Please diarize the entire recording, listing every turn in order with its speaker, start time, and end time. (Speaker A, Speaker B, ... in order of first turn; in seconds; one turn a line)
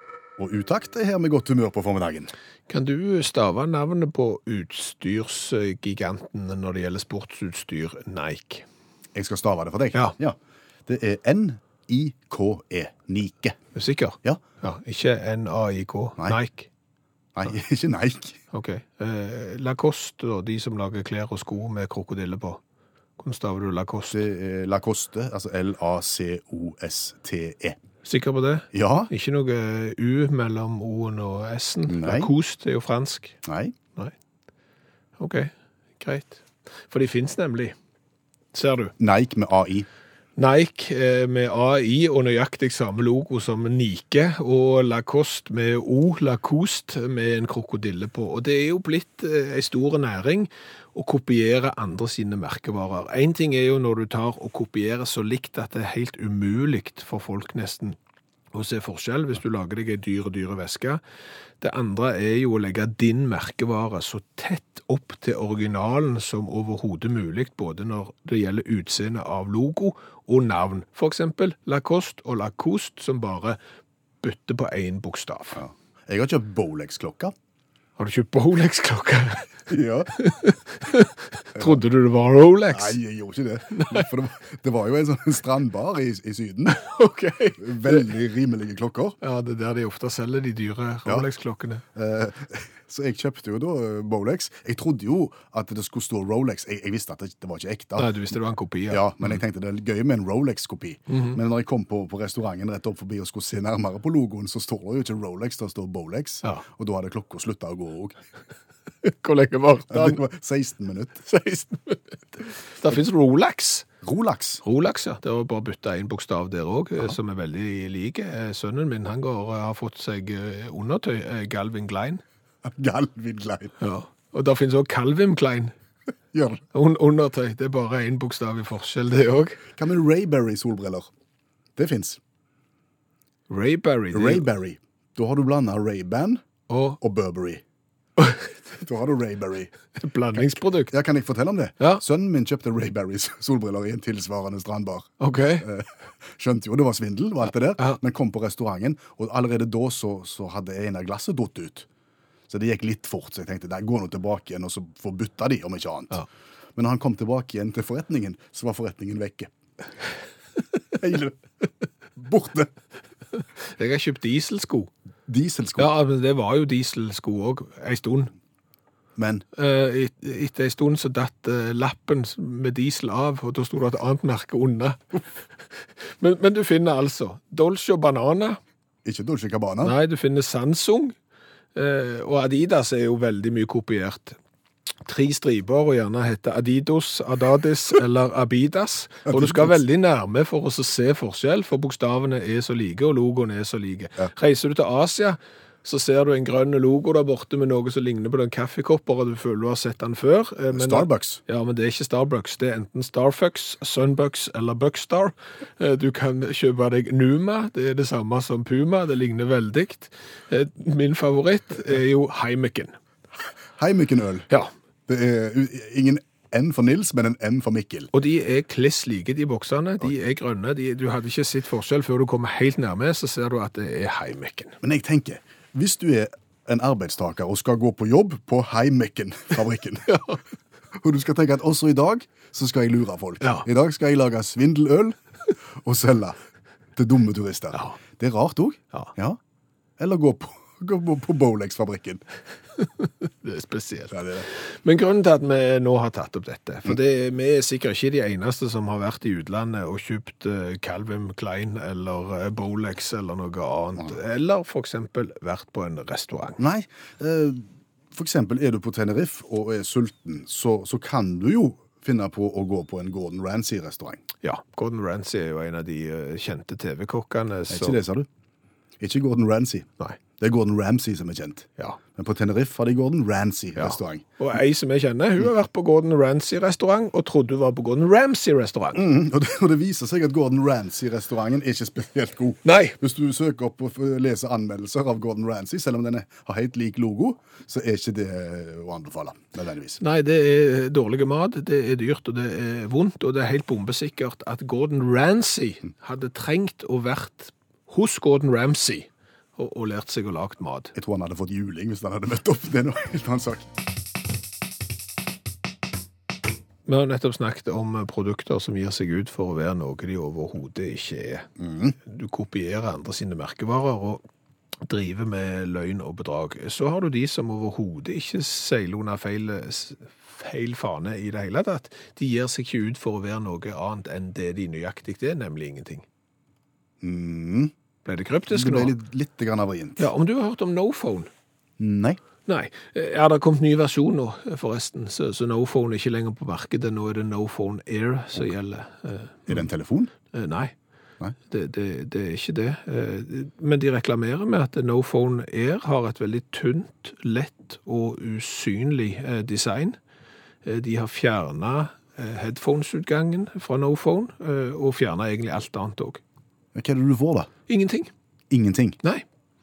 Speaker A: 0.4-2.3
Speaker B: 2.7-8.6
Speaker A: 9.1-13.6
Speaker B: 13.7-16.7
Speaker A: 17.3-18.4
Speaker B: 18.5-22.6
Speaker B: 23.2-24.2
Speaker A: 24.1-27.8
Speaker B: 28.0-33.4
Speaker A: 28.7-29.1
Speaker A: 31.9-32.3
Speaker A: 33.4-33.7
Speaker B: 35.2-37.7
Speaker B: 38.5-38.9
Speaker A: 39.0-39.9
Speaker B: 40.4-58.0
Speaker B: 58.5-61.0
Speaker B: 61.6-73.6
Speaker B: 74.2-75.6
Speaker A: 75.5-77.3
Speaker B: 78.0-79.5
Speaker A: 79.7-80.1
Speaker B: 80.2-83.0
Speaker A: 82.7-86.8
Speaker B: 83.7-84.1
Speaker B: 86.7-88.1
Speaker A: 87.6-89.2
Speaker B: 89.2-91.8
Speaker A: 91.9-98.1
Speaker B: 98.0-99.4
Speaker A: 98.9-108.2
Speaker B: 101.1-101.4
Speaker B: 109.0-110.2
Speaker A: 109.9-111.2
Speaker B: 111.3-113.8
Speaker A: 114.0-114.6
Speaker B: 114.6-122.2
Speaker A: 122.6-123.7
Speaker B: 123.8-125.7
Speaker A: 126.3-126.6
Speaker B: 126.7-129.6
Speaker A: 129.8-131.1
Speaker A: 131.8-132.2
Speaker B: 133.5-134.5
Speaker A: 134.1-136.4
Speaker B: 136.7-137.0
Speaker A: 137.0-137.6
Speaker B: 138.2-138.5
Speaker A: 138.7-139.7
Speaker B: 140.0-140.9
Speaker A: 140.9-151.9
Speaker B: 145.2-145.7
Speaker A: 152.5-156.2
Speaker A: 156.8-159.5
Speaker A: 160.9-161.4
Speaker A: 162.2-162.7
Speaker B: 163.6-164.9
Speaker A: 165.3-165.9
Speaker B: 165.8-168.3
Speaker A: 169.2-169.4
Speaker B: 169.6-175.2
Speaker B: 176.2-178.6
Speaker A: 179.0-180.0
Speaker B: 179.8-181.1
Speaker B: 181.7-184.4
Speaker B: 185.0-212.9
Speaker A: 189.3-189.8
Speaker A: 200.7-201.4
Speaker A: 213.8-214.5
Speaker A: 215.1-218.1
Speaker B: 218.1-224.8
Speaker A: 224.8-230.2
Speaker B: 230.1-230.4
Speaker A: 230.9-236.4
Speaker B: 233.4-233.7
Speaker A: 236.9-239.4
Speaker A: 240.0-242.2
Speaker B: 242.8-256.6
Speaker A: 244.1-244.5
Speaker A: 256.6-264.2
Speaker B: 264.4-268.0
Speaker A: 267.7-268.3
Speaker A: 269.0-274.2
Speaker B: 273.8-279.1
Speaker A: 278.9-290.0
Speaker B: 282.6-283.0
Speaker B: 290.0-300.9
Speaker A: 300.9-303.7
Speaker B: 306.9-311.5
Speaker A: 311.6-311.9
Speaker B: 312.1-314.2
Speaker B: 314.9-326.0
Speaker A: 327.0-327.7
Speaker B: 328.1-328.9
Speaker A: 328.5-330.1
Speaker B: 330.0-331.3
Speaker A: 331.8-332.2
Speaker B: 332.5-339.6
Speaker A: 339.5-340.1
Speaker B: 340.3-340.7
Speaker B: 341.5-350.0
Speaker B: 350.6-356.2
Speaker A: 356.7-357.5
Speaker B: 357.7-358.1
Speaker A: 358.5-359.0